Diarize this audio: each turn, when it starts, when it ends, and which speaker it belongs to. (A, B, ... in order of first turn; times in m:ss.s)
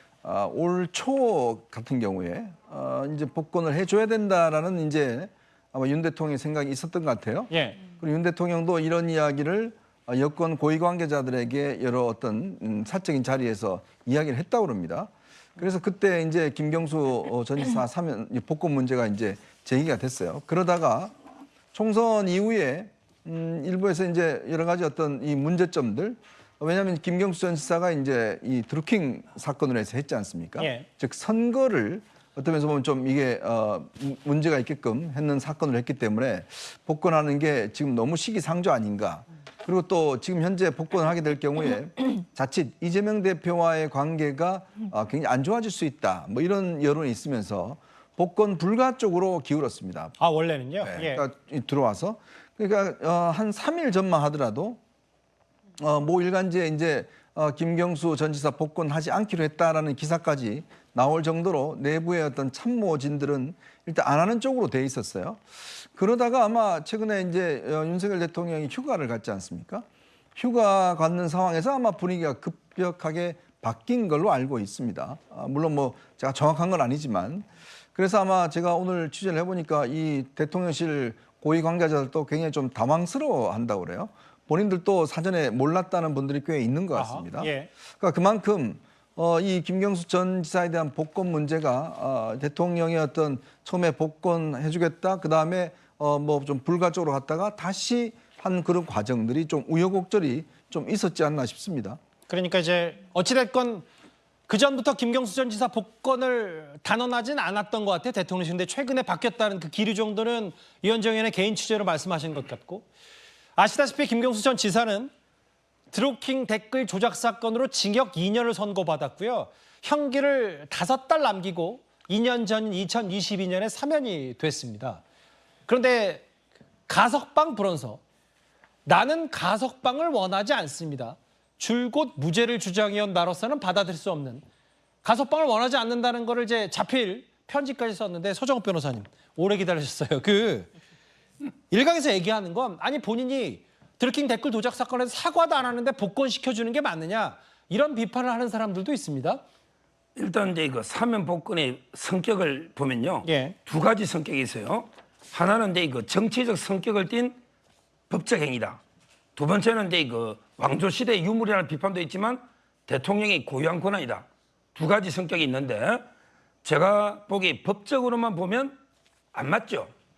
0:00.2-0:21.1 A
0:07.5-0:07.8 B
0:21.7-0:50.1 A
0:30.6-0:30.8 B
0:50.2-0:51.2 B
0:50.8-0:54.8 A
0:55.8-1:42.0 A
1:26.9-1:27.7 B
1:42.3-1:43.8 B
1:44.5-1:52.9 B
1:53.6-1:55.1 B
1:55.9-2:05.0 B
2:05.7-2:06.3 B
2:06.9-2:08.0 B
2:08.8-2:14.4 B
2:15.0-2:20.7 B
2:21.7-2:29.4 B
2:30.2-2:37.4 C
2:33.2-2:33.6 B
2:38.1-2:38.8 C
2:39.4-2:46.1 C
2:46.6-2:48.8 C
2:49.3-2:49.9 C